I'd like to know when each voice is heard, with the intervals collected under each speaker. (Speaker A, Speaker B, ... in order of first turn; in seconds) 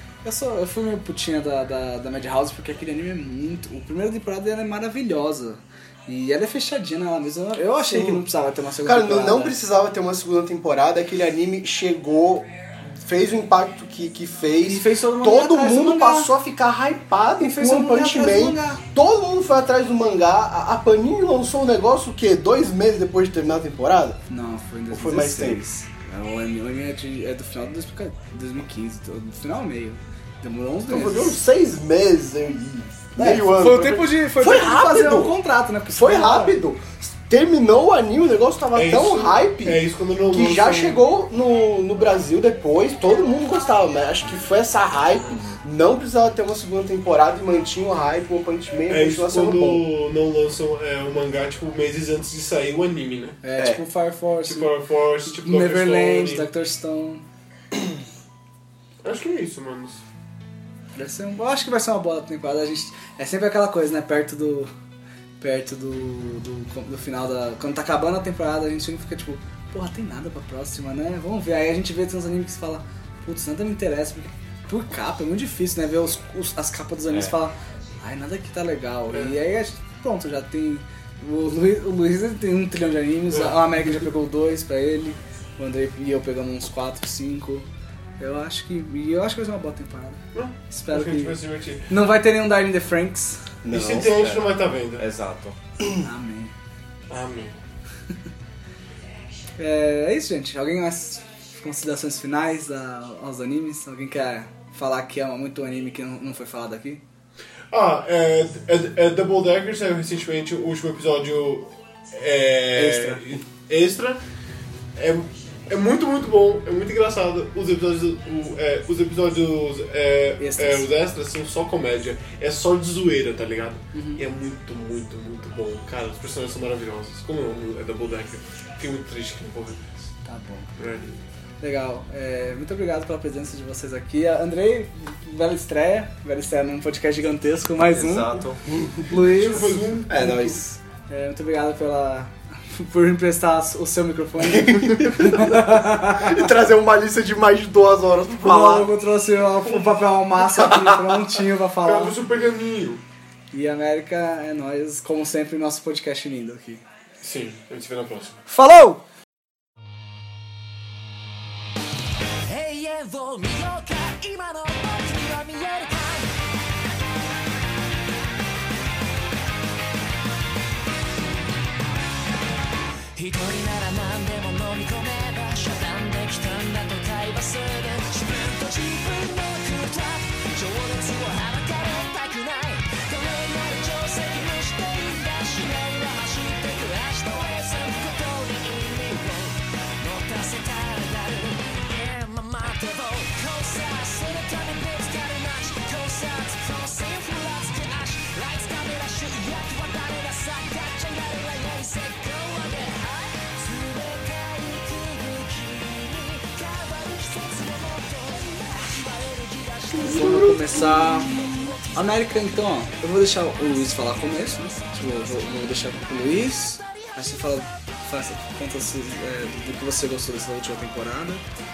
Speaker A: 0.2-9.6, 14.6-16.3, 17.4-18.8, 24.3-31.4, 33.1-36.6, 53.4-57.2, 61.0-64.7, 65.4-87.7, 88.2-93.4, 96.0-96.5, 99.6-107.0, 112.7-113.2, 120.4-120.9, 123.9-124.2, 130.2-130.7, 131.6-138.4, 139.0-146.4, 148.4-152.2, 153.5-156.8, 158.5-159.0, 210.0-211.4, 211.9-221.4
Speaker B: 7.8-8.2, 8.8-24.2, 24.9-25.6, 30.9-35.4, 35.9-49.9, 53.5-53.8, 93.6-94.2, 140.1-140.7, 144.4-148.9, 210.0-211.5
Speaker C: 38.7-41.0, 48.9-53.4, 54.4-56.5, 59.0-60.0, 90.3-91.9, 93.7-95.1, 97.1-97.5, 107.7-114.2, 115.0-129.8, 130.8-131.2, 139.2-140.4, 149.6-150.1, 151.8-153.0, 157.2-158.4
Speaker D: 94.1-95.6, 137.8-138.6
Speaker E: 162.4-166.3, 173.1-212.5, 214.4-215.8, 216.9-217.3